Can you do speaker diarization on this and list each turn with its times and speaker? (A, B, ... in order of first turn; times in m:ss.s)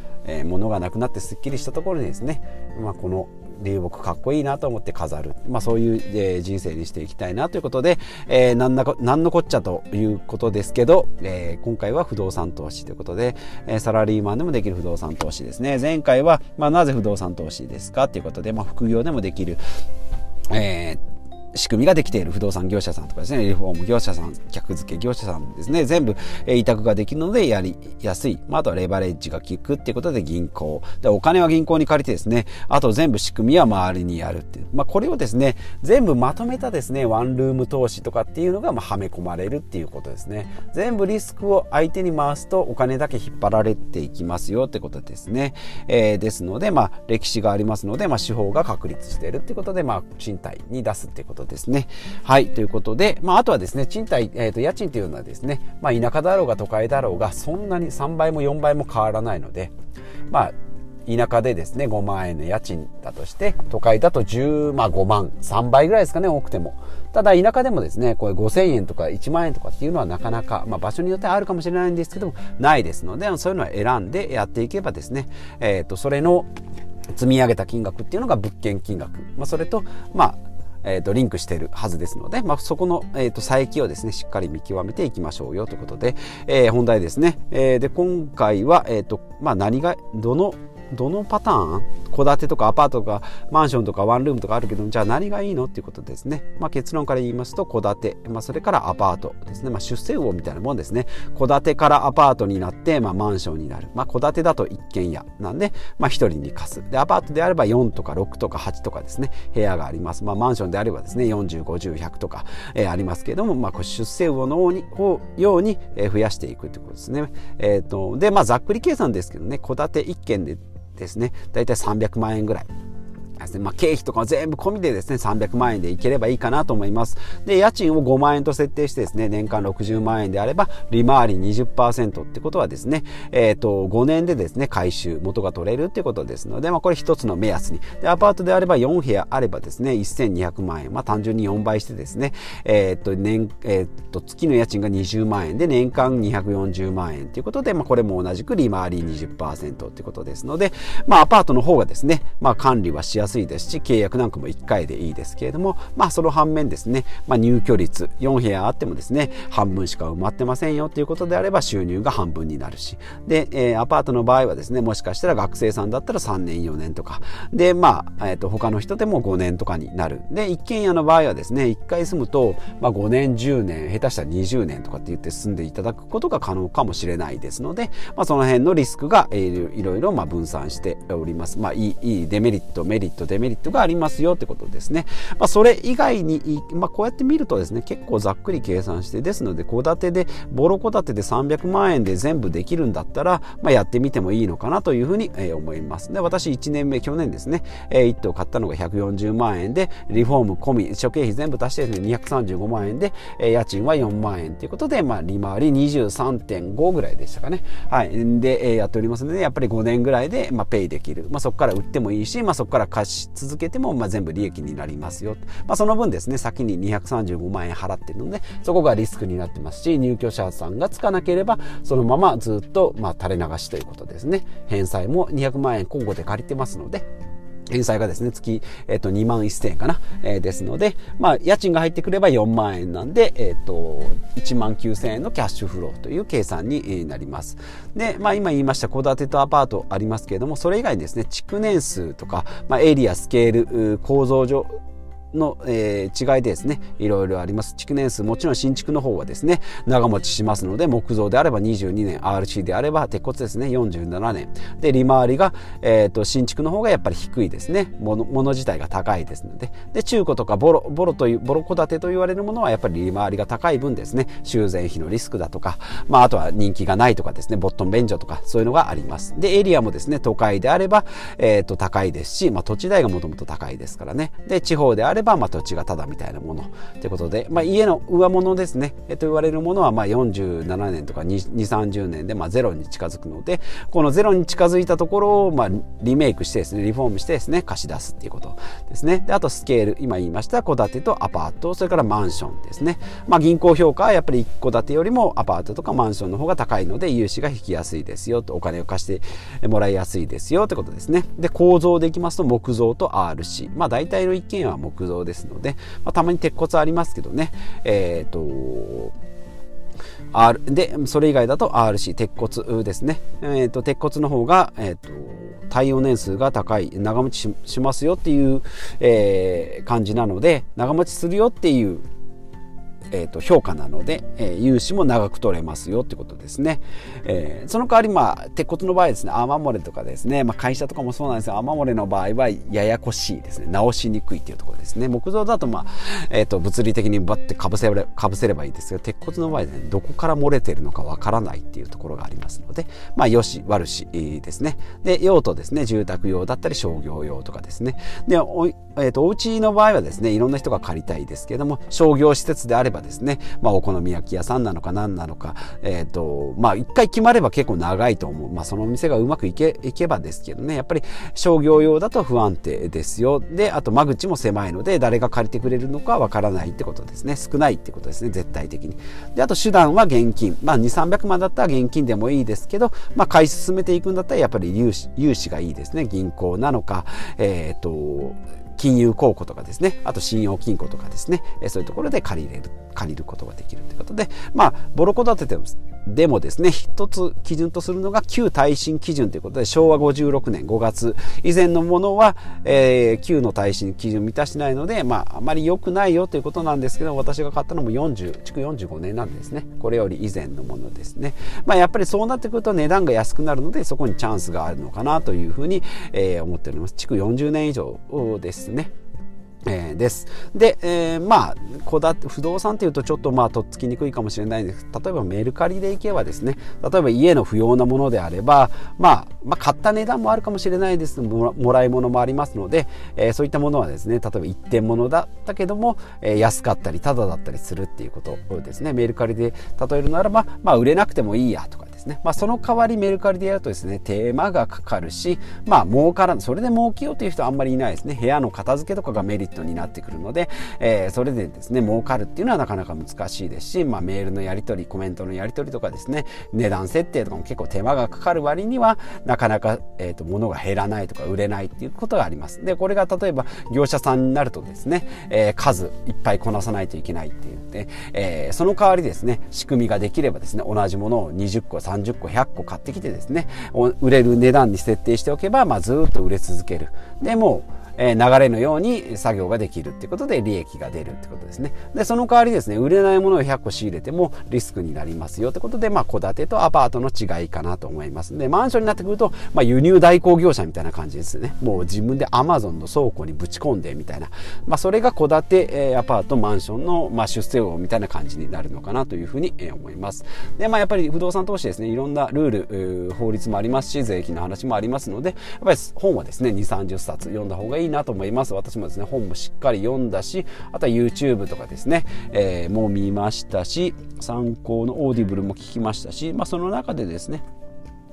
0:00.2-0:19.6 A
0:20.5-0:21.0 A
0:21.5-0:59.7 A
1:01.1-1:16.5 A
1:17.1-2:02.7 A
2:03.4-3:47.0 A
3:47.7-4:04.7 A
4:05.3-5:09.2 A
5:10.3-5:22.0 A
5:23.1-6:48.9 A
6:49.7-8:27.4 A